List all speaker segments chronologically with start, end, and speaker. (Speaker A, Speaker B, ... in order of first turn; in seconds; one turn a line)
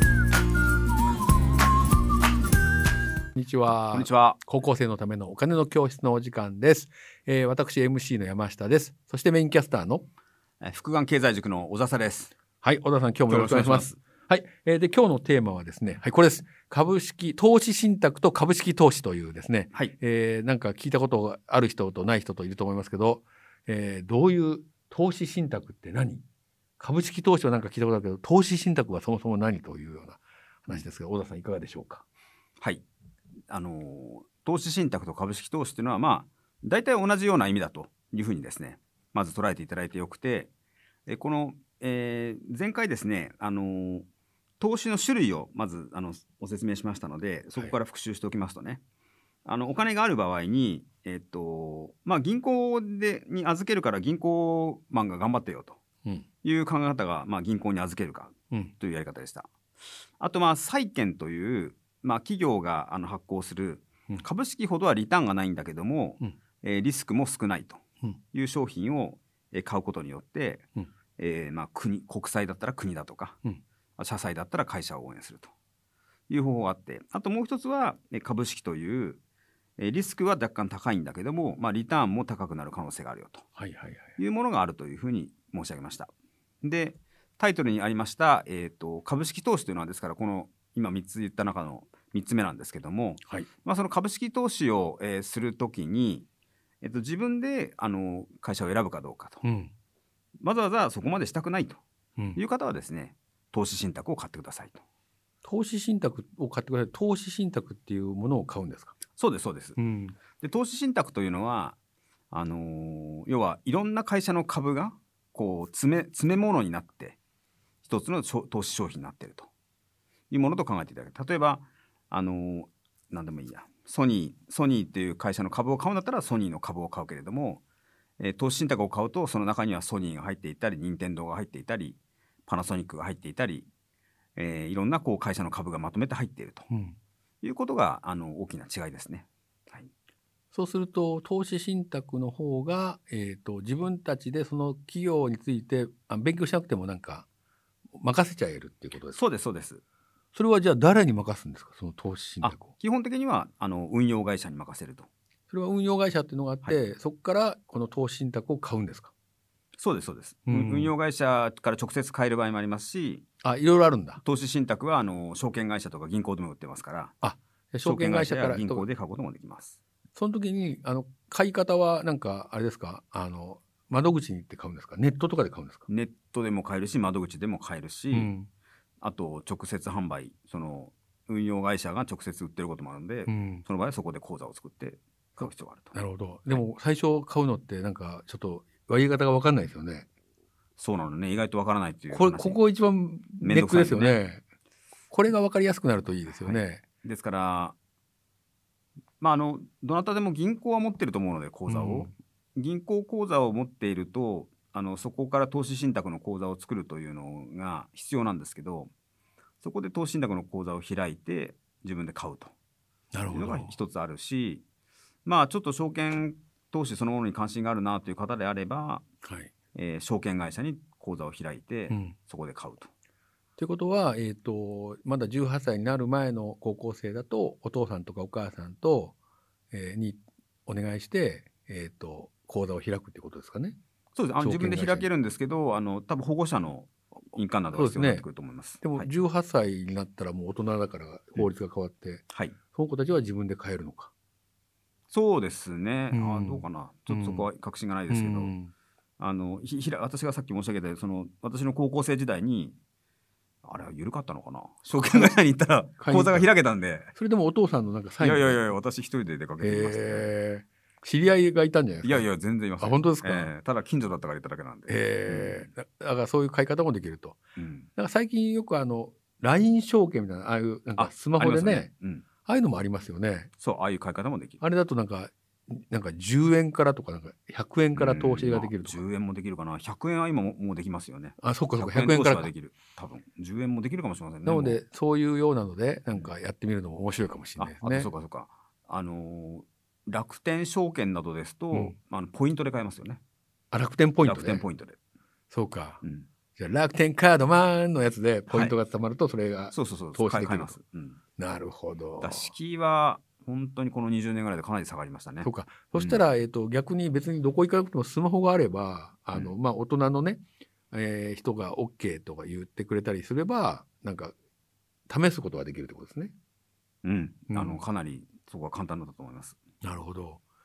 Speaker A: 3.3-10.0
Speaker B: 3.9-4.4
Speaker B: 10.6-12.3
Speaker A: 12.6-26.2
Speaker B: 13.3-14.0
Speaker A: 26.8-32.0
Speaker B: 33.5-40.5
Speaker B: 41.1-44.0
Speaker B: 44.6-48.8
Speaker B: 49.5-55.8
Speaker B: 56.4-59.5
Speaker B: 60.2-70.7
Speaker B: 71.2-73.4
Speaker B: 74.0-75.5
Speaker B: 76.3-79.2
Speaker B: 79.8-83.5
Speaker A: 83.6-84.1
Speaker B: 84.2-86.1
Speaker B: 86.6-96.2
Speaker B: 96.8-99.4
Speaker A: 99.4-99.7
Speaker B: 100.4-101.8
Speaker B: 102.3-104.8
Speaker A: 105.4-108.9
Speaker B: 109.2-109.8
Speaker A: 109.8-110.2
Speaker B: 110.4-111.8
Speaker B: 112.3-117.2
Speaker B: 117.8-119.5
Speaker B: 120.3-127.6
Speaker B: 128.2-133.7
Speaker B: 134.3-136.7
Speaker A: 136.7-136.9
Speaker B: 137.4-139.9
Speaker A: 140.5-147.2
Speaker A: 147.9-149.2
Speaker B: 149.1-149.8
Speaker A: 150.3-152.7
Speaker B: 152.4-155.1
Speaker A: 155.5-159.1
Speaker B: 159.8-163.2
Speaker A: 160.5-160.9
Speaker A: 163.4-164.2
Speaker B: 164.2-167.1
Speaker A: 167.2-168.8
Speaker B: 167.8-169.8
Speaker A: 170.2-175.9
Speaker B: 175.9-178.3
Speaker A: 178.1-178.5
Speaker B: 179.0-186.0
Speaker A: 183.3-183.6
Speaker A: 185.4-190.1
Speaker B: 190.8-192.6
Speaker A: 192.1-194.4
Speaker B: 193.4-194.2
Speaker A: 195.1-196.8
Speaker B: 196.3-197.7
Speaker B: 199.2-208.9
Speaker A: 201.7-202.1
Speaker B: 209.6-212.5
Speaker A: 213.1-213.7
Speaker B: 213.3-214.6
Speaker B: 215.2-219.0
Speaker A: 219.2-219.5
Speaker B: 219.7-222.9
Speaker A: 223.6-229.1
Speaker A: 229.7-233.8
Speaker B: 234.1-239.1
Speaker A: 234.4-235.1
Speaker A: 237.7-238.2
Speaker A: 238.8-244.1
Speaker B: 242.3-242.6
Speaker B: 245.1-248.5
Speaker A: 246.1-247.5
Speaker A: 248.1-248.7
Speaker B: 249.2-252.8
Speaker B: 253.6-257.1
Speaker A: 255.0-255.3
Speaker A: 256.0-256.5
Speaker A: 257.1-258.7
Speaker B: 258.2-260.3
Speaker A: 259.6-262.2
Speaker B: 262.0-265.7
Speaker A: 262.8-263.5
Speaker A: 264.9-267.4
Speaker B: 267.6-267.9
Speaker A: 268.0-271.9
Speaker B: 271.0-272.2
Speaker A: 272.4-273.5
Speaker B: 273.6-274.6
Speaker A: 274.6-279.0
Speaker B: 277.9-284.8
Speaker A: 281.4-282.5
Speaker A: 284.4-288.1
Speaker B: 287.6-293.2
Speaker A: 293.7-294.6
Speaker B: 294.2-295.0
Speaker A: 295.5-296.0
Speaker B: 296.0-296.3
Speaker A: 296.6-300.8
Speaker B: 298.5-298.8
Speaker B: 299.7-301.2
Speaker A: 301.4-302.5
Speaker B: 302.2-306.2
Speaker A: 305.4-314.3
Speaker A: 315.1-316.3
Speaker B: 317.0-319.6
Speaker A: 317.5-317.8
Speaker A: 319.8-320.4